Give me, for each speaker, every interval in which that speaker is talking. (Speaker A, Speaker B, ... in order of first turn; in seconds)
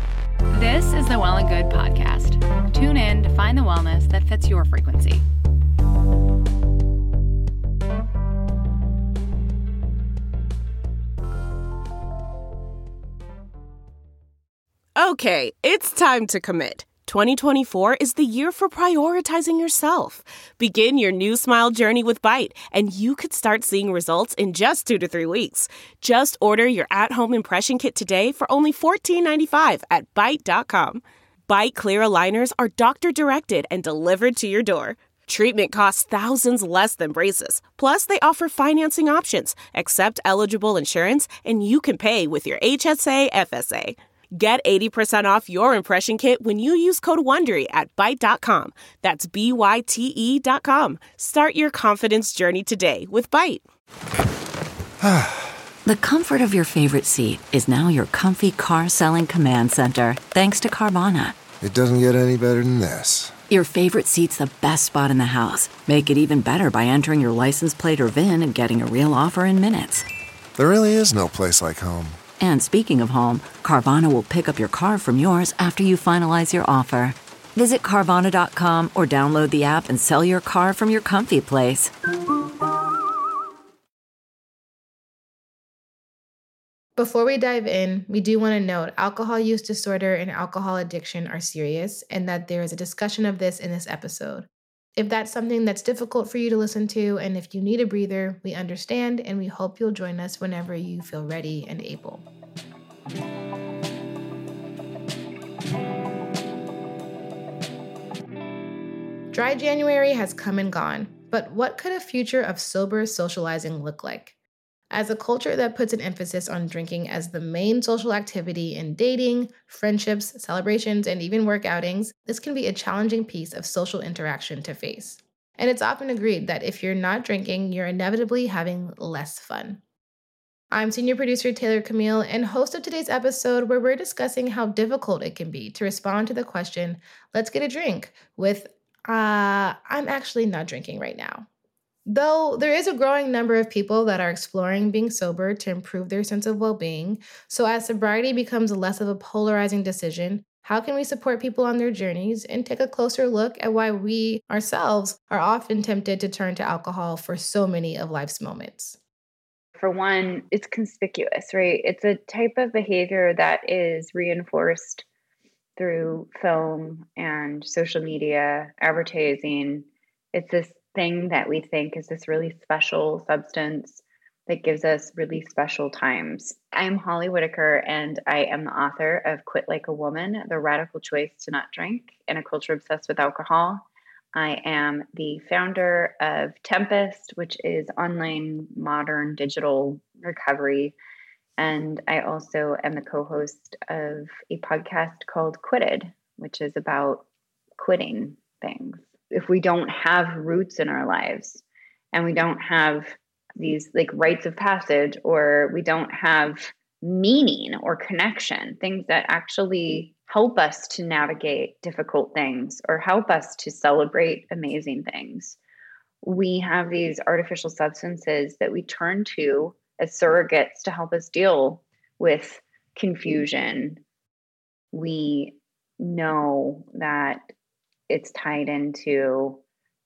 Speaker A: 0.5-5.2
Speaker B: 14.9-53.6
Speaker C: 55.8-61.4, 63.5-70.0, 72.4-81.9
Speaker D: 61.6-63.3, 70.5-72.2
Speaker E: 87.0-102.2, 109.3-114.3, 114.9-129.8, 130.7-141.4, 142.1-159.0
Speaker F: 159.8-165.0, 165.8-183.8, 184.3-190.9, 191.6-197.2, 197.8-215.6, 216.2-224.0, 224.9-227.4, 228.1-229.6